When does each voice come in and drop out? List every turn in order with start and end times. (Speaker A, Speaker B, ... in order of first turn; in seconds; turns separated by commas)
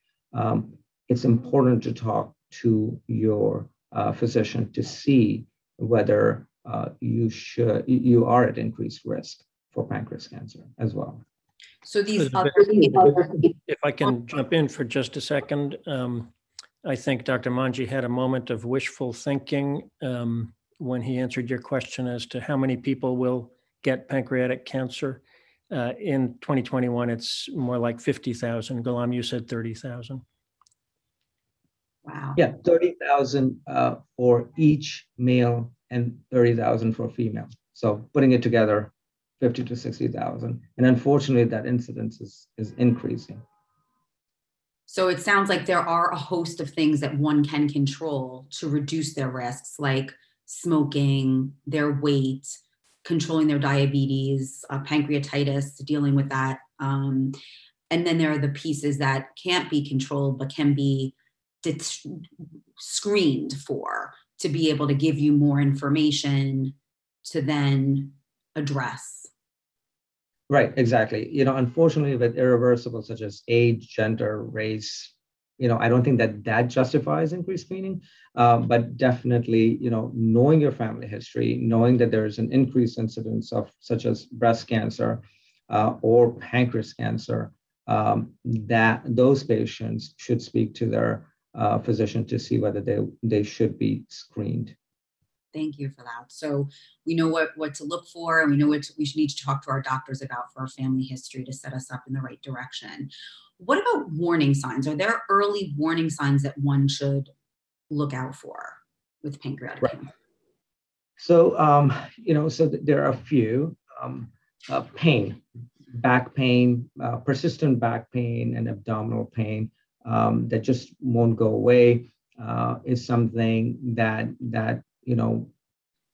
Speaker A: 0.3-11.2, Speaker B: 11.8-13.4, Speaker C: 12.2-16.3, Speaker C: 16.8-30.2, Speaker B: 32.0-32.4, Speaker A: 32.4-43.4, Speaker B: 44.9-57.4, Speaker B: 57.9-62.3, Speaker B: 62.8-69.3, Speaker A: 70.5-94.8, Speaker B: 95.5-107.3, Speaker B: 107.9-110.1, Speaker A: 111.2-125.5